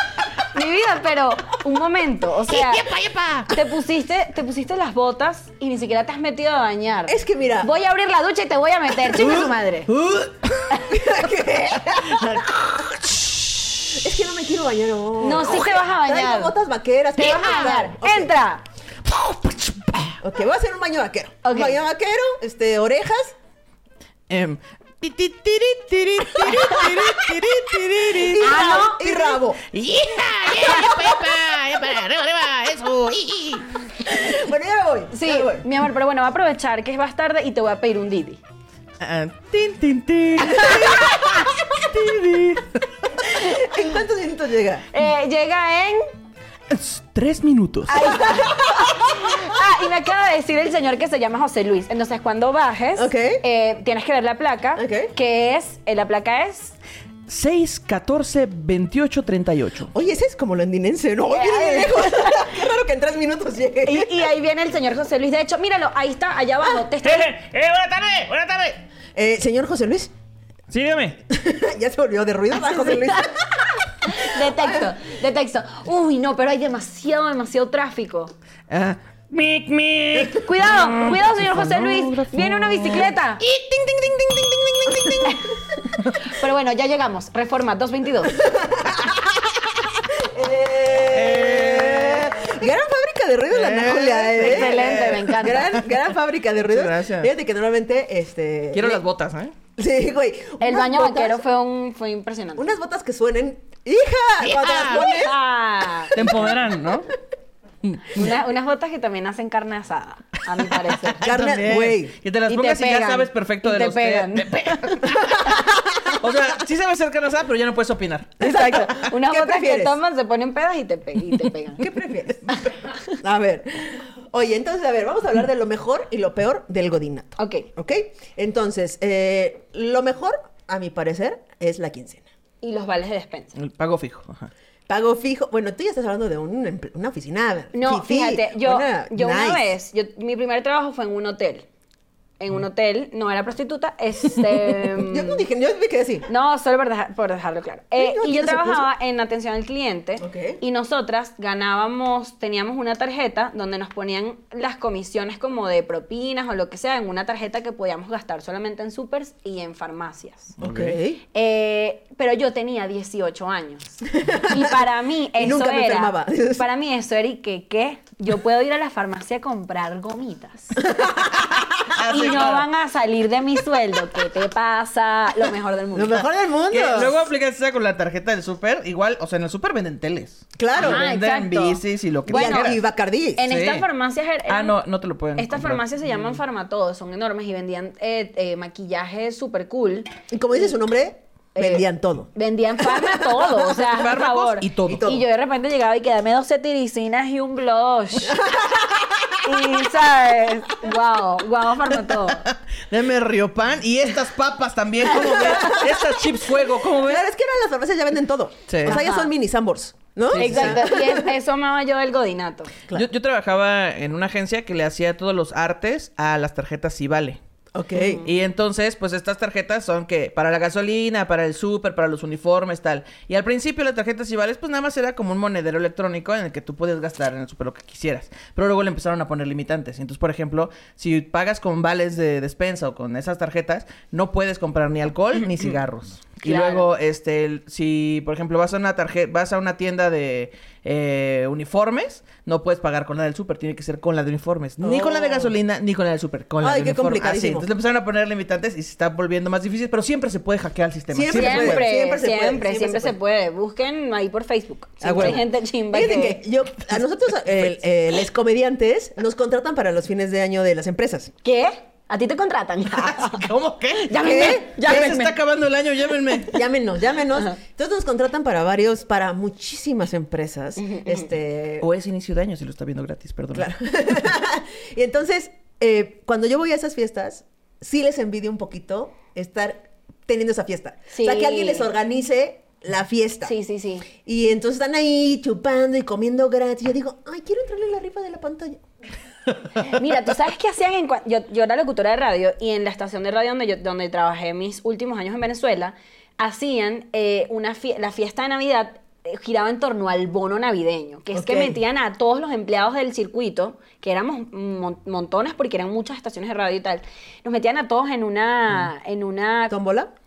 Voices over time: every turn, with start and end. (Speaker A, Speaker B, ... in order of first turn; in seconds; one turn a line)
Speaker A: 0.5-2.9
Speaker B: 2.5-3.5
Speaker A: 3.5-9.9
Speaker C: 7.1-7.7
Speaker B: 9.0-11.0
Speaker C: 10.9-12.5
Speaker B: 11.8-13.9
Speaker C: 13.9-18.4
Speaker A: 15.2-16.6
Speaker A: 17.2-18.6
Speaker B: 19.1-20.2
Speaker C: 20.2-23.4
Speaker A: 21.4-21.8
Speaker B: 24.3-33.7
Speaker C: 26.4-27.1
Speaker C: 28.1-29.6
Speaker A: 28.4-29.3
Speaker C: 34.0-35.7
Speaker A: 35.1-38.4
Speaker B: 39.0-43.3
Speaker C: 40.5-41.1
Speaker C: 43.3-44.9
Speaker A: 44.9-46.1
Speaker B: 46.7-48.0
Speaker A: 47.9-56.8
Speaker C: 48.0-49.1
Speaker C: 53.0-53.4
Speaker C: 54.8-55.1
Speaker B: 57.3-59.9
Speaker C: 59.9-64.3
Speaker A: 61.3-62.5
Speaker A: 63.8-67.3
Speaker B: 67.0-68.8
Speaker C: 69.2-70.1
Speaker B: 70.7-71.2
Speaker C: 71.3-73.7
Speaker A: 72.7-73.4
Speaker A: 74.0-78.3
Speaker C: 74.5-74.9
Speaker B: 78.7-85.5
Speaker A: 80.2-83.4
Speaker A: 85.2-85.5
Speaker A: 86.1-88.5
Speaker C: 88.3-99.0
Speaker B: 91.1-92.5
Speaker B: 93.5-95.3
Speaker A: 94.4-95.8
Speaker B: 96.7-97.3
Speaker B: 98.7-99.5
Speaker C: 99.8-101.4
Speaker A: 100.6-102.7
Speaker C: 102.6-105.4
Speaker B: 104.4-105.1
Speaker A: 104.9-106.3
Speaker C: 106.1-106.6
Speaker B: 106.1-107.1
Speaker B: 107.8-108.3
Speaker A: 108.1-111.3
Speaker B: 110.8-118.9
Speaker C: 111.2-112.1
Speaker A: 112.5-115.2
Speaker C: 115.4-116.2
Speaker C: 118.4-120.0
Speaker A: 118.4-121.9
Speaker C: 121.8-132.2
Speaker A: 127.4-127.7
Speaker A: 132.6-133.6
Speaker B: 133.6-134.5
Speaker C: 134.9-139.6
Speaker A: 137.7-141.7
Speaker A: 142.4-145.4
Speaker C: 145.0-146.3
Speaker A: 146.3-160.6
Speaker C: 148.0-148.9
Speaker C: 150.2-150.6
Speaker B: 160.6-161.0
Speaker C: 160.6-161.2
Speaker A: 161.3-170.9
Speaker C: 164.1-164.8
Speaker C: 165.4-166.7
Speaker C: 170.8-171.5
Speaker B: 171.9-172.7
Speaker A: 172.1-176.2
Speaker C: 175.9-177.2
Speaker B: 176.7-182.8
Speaker C: 180.6-181.1
Speaker A: 180.8-182.8
Speaker C: 182.3-183.5
Speaker A: 183.4-184.8
Speaker B: 183.4-183.9
Speaker B: 184.5-185.9
Speaker A: 185.4-190.1
Speaker C: 190.3-193.6
Speaker A: 191.6-198.5
Speaker B: 193.9-195.1
Speaker C: 194.9-195.2
Speaker C: 198.3-199.4
Speaker A: 199.4-202.5
Speaker B: 202.1-207.3
Speaker C: 205.2-206.1
Speaker C: 206.9-211.3
Speaker B: 208.7-209.0
Speaker A: 208.9-209.3
Speaker B: 210.3-210.8
Speaker A: 210.3-212.7
Speaker B: 212.9-217.4
Speaker C: 217.7-218.2
Speaker A: 218.0-218.2
Speaker B: 218.2-251.9
Speaker A: 236.4-236.9
Speaker C: 244.8-245.5
Speaker C: 246.6-247.7
Speaker C: 251.1-253.2
Speaker A: 251.3-256.4
Speaker C: 255.0-261.3
Speaker A: 261.4-263.5
Speaker B: 262.9-266.6
Speaker A: 264.1-265.3
Speaker C: 264.2-265.2
Speaker C: 266.5-271.9
Speaker A: 270.8-271.3
Speaker B: 271.8-273.7
Speaker C: 273.5-283.5
Speaker A: 281.1-281.9
Speaker A: 283.4-284.1
Speaker C: 284.2-288.8
Speaker A: 289.8-309.7
Speaker C: 301.3-301.8
Speaker C: 309.7-310.1